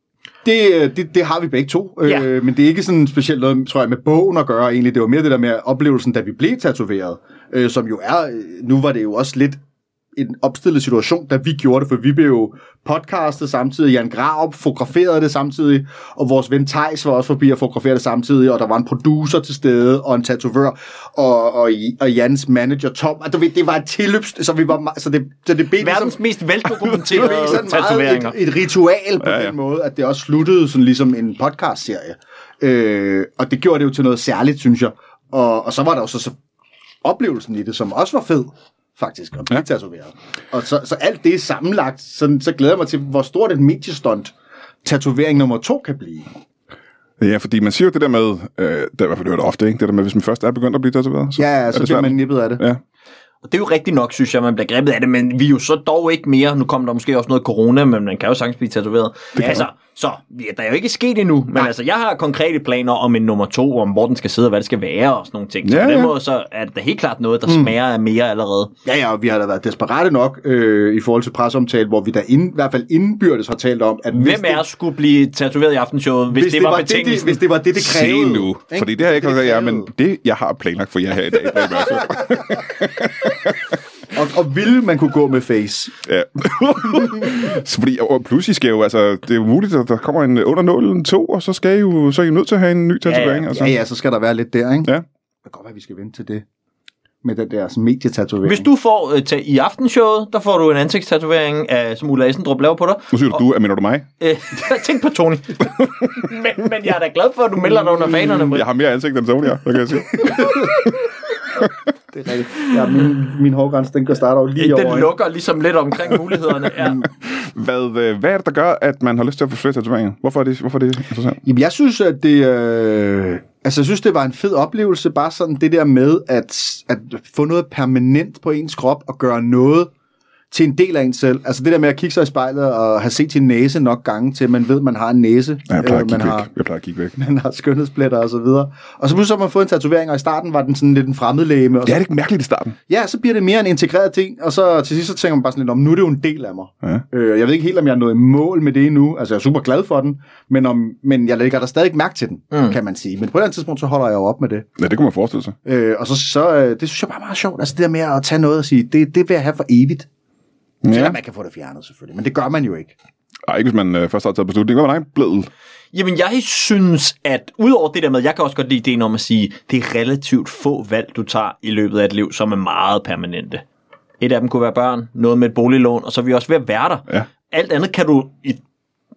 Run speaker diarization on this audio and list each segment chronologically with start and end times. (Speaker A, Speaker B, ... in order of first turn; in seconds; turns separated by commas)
Speaker A: 0.4-9.6, Speaker A: 10.2-26.2, Speaker B: 25.8-28.4, Speaker A: 27.0-36.4, Speaker C: 29.2-29.5, Speaker A: 37.0-44.3, Speaker A: 44.8-46.3, Speaker C: 47.2-52.8, Speaker A: 51.4-52.6, Speaker B: 53.5-68.7, Speaker C: 59.4-59.6, Speaker A: 59.4-59.6, Speaker C: 65.6-66.1, Speaker A: 67.5-67.7, Speaker A: 68.9-74.6, Speaker B: 74.1-77.4, Speaker A: 76.3-79.9, Speaker C: 77.8-83.8, Speaker A: 81.5-82.4, Speaker A: 84.1-85.9, Speaker C: 86.0-93.7, Speaker B: 93.1-93.5, Speaker A: 93.4-94.9, Speaker A: 95.5-96.5, Speaker A: 97.2-98.7, Speaker B: 98.5-103.4, Speaker C: 103.1-104.1, Speaker B: 104.2-108.7, Speaker C: 108.5-110.9, Speaker A: 110.2-110.7, Speaker A: 112.1-115.1, Speaker B: 114.6-117.0, Speaker C: 117.0-121.4, Speaker A: 121.4-129.9, Speaker A: 130.5-136.5, Speaker C: 135.7-137.2, Speaker A: 137.2-142.0, Speaker C: 141.8-142.8, Speaker A: 142.9-154.7, Speaker C: 154.8-155.6, Speaker A: 155.7-160.1, Speaker C: 160.8-161.2, Speaker A: 160.9-162.9, Speaker C: 163.5-165.5, Speaker B: 165.9-173.6, Speaker B: 174.2-178.6